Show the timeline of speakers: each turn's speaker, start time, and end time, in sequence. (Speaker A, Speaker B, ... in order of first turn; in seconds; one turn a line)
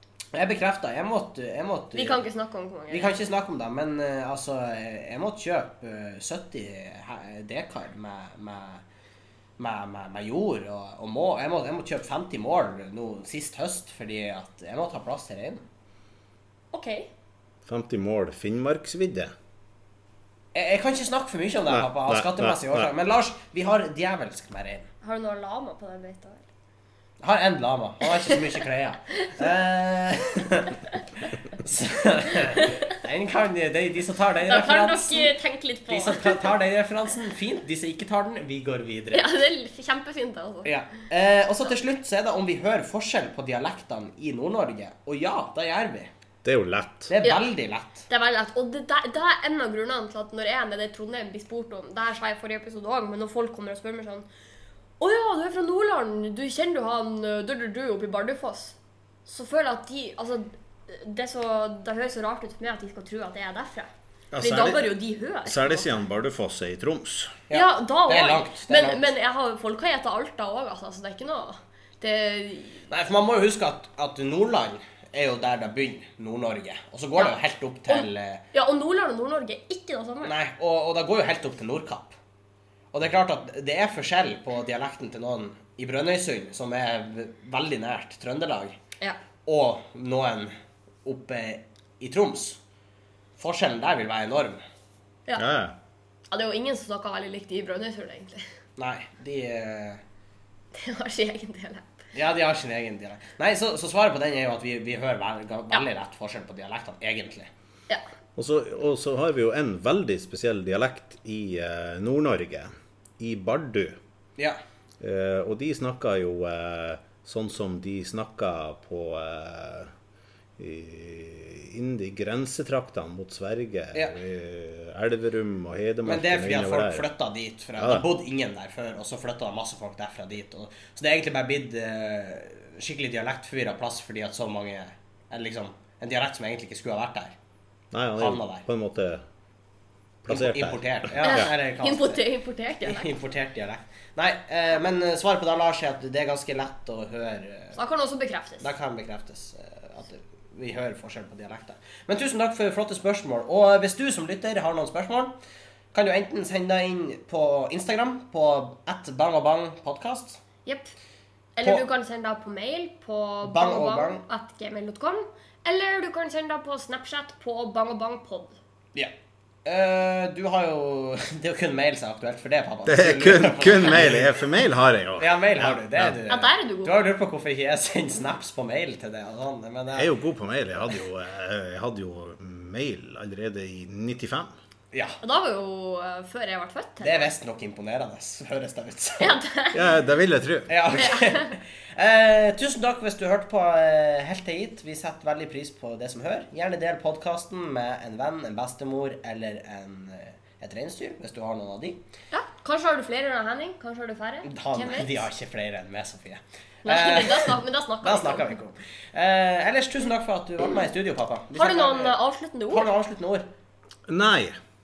Speaker A: 0.3-2.2
Speaker B: 1.9-3.2
Speaker A: 2.9-8.8
Speaker A: 9.6-15.6
Speaker B: 16.7-17.1
Speaker C: 17.6-19.3
Speaker A: 20.5-24.9
Speaker C: 21.7-22.9
Speaker B: 25.0-26.4
Speaker A: 27.2-35.3
Speaker B: 34.5-36.5
Speaker A: 35.9-39.2
Speaker B: 39.1-40.7
Speaker A: 40.6-46.1
Speaker C: 46.4-47.1
Speaker A: 47.1-48.0
Speaker B: 47.2-47.5
Speaker B: 48.1-54.3
Speaker B: 55.0-58.7
Speaker B: 59.3-63.9
Speaker C: 64.3-64.9
Speaker B: 64.4-65.9
Speaker C: 65.4-67.4
Speaker A: 67.5-69.1
Speaker B: 67.5-72.9
Speaker A: 72.9-78.4
Speaker B: 77.2-80.3
Speaker A: 80.2-82.1
Speaker A: 82.9-88.8
Speaker A: 89.5-90.5
Speaker A: 91.0-92.6
Speaker A: 93.4-94.6
Speaker C: 95.3-95.8
Speaker B: 96.3-98.5
Speaker A: 98.8-100.0
Speaker B: 100.7-102.0
Speaker A: 102.1-107.5
Speaker C: 108.4-114.0
Speaker C: 115.0-119.9
Speaker C: 120.6-127.1
Speaker A: 126.0-137.4
Speaker C: 127.8-128.1
Speaker C: 137.9-139.2
Speaker A: 138.2-138.6
Speaker C: 140.2-141.5
Speaker A: 140.3-142.2
Speaker B: 141.2-143.2
Speaker A: 142.8-147.8
Speaker B: 147.8-148.7
Speaker A: 148.6-155.3
Speaker A: 155.9-160.4
Speaker B: 160.7-160.9
Speaker B: 161.6-168.6
Speaker A: 163.4-164.2
Speaker A: 169.6-174.4
Speaker C: 172.9-176.2
Speaker A: 175.2-180.1
Speaker B: 176.3-177.0
Speaker C: 179.9-184.5
Speaker A: 184.9-185.2
Speaker B: 185.2-187.3
Speaker A: 187.0-189.4
Speaker B: 189.2-189.9
Speaker C: 189.7-190.7
Speaker A: 190.7-202.0
Speaker B: 191.0-191.5
Speaker B: 202.3-205.3
Speaker A: 204.4-212.2
Speaker B: 206.8-208.5
Speaker B: 211.6-212.9
Speaker A: 212.7-213.5
Speaker C: 214.1-214.6